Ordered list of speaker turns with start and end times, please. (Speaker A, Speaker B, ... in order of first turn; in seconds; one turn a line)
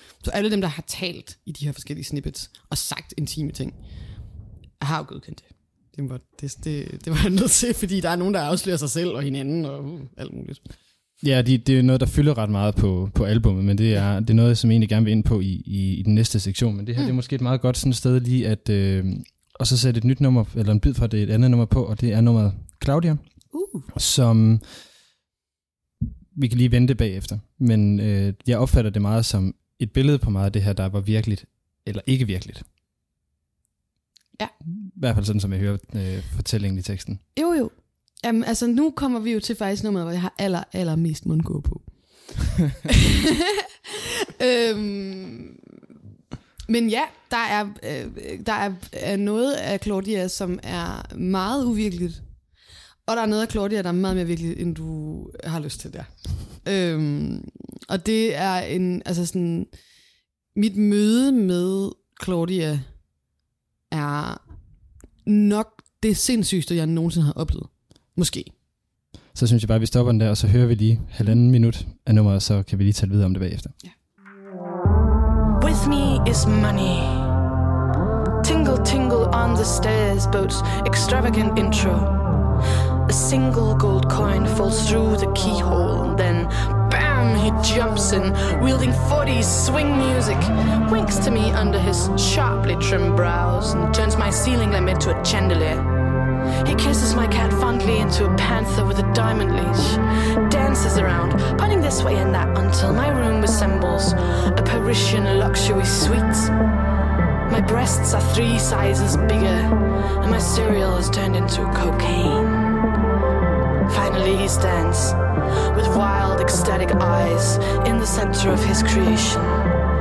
Speaker A: 0.2-3.8
Speaker A: 4.8-10.6
Speaker B: 11.2-23.2
Speaker A: 23.5-23.9
Speaker B: 23.9-24.8
Speaker B: 26.3-32.6
Speaker B: 34.6-37.2
Speaker A: 37.4-41.9
Speaker A: 42.9-45.6
Speaker A: 46.7-52.2
Speaker A: 53.1-59.7
Speaker A: 60.5-62.9
Speaker A: 63.9-64.4
Speaker A: 65.2-68.5
Speaker B: 69.3-73.8
Speaker C: 75.6-77.4
Speaker C: 78.4-82.2
Speaker C: 83.1-95.9
Speaker C: 96.6-106.5
Speaker C: 107.5-112.7
Speaker C: 113.9-115.2
Speaker C: 115.7-119.7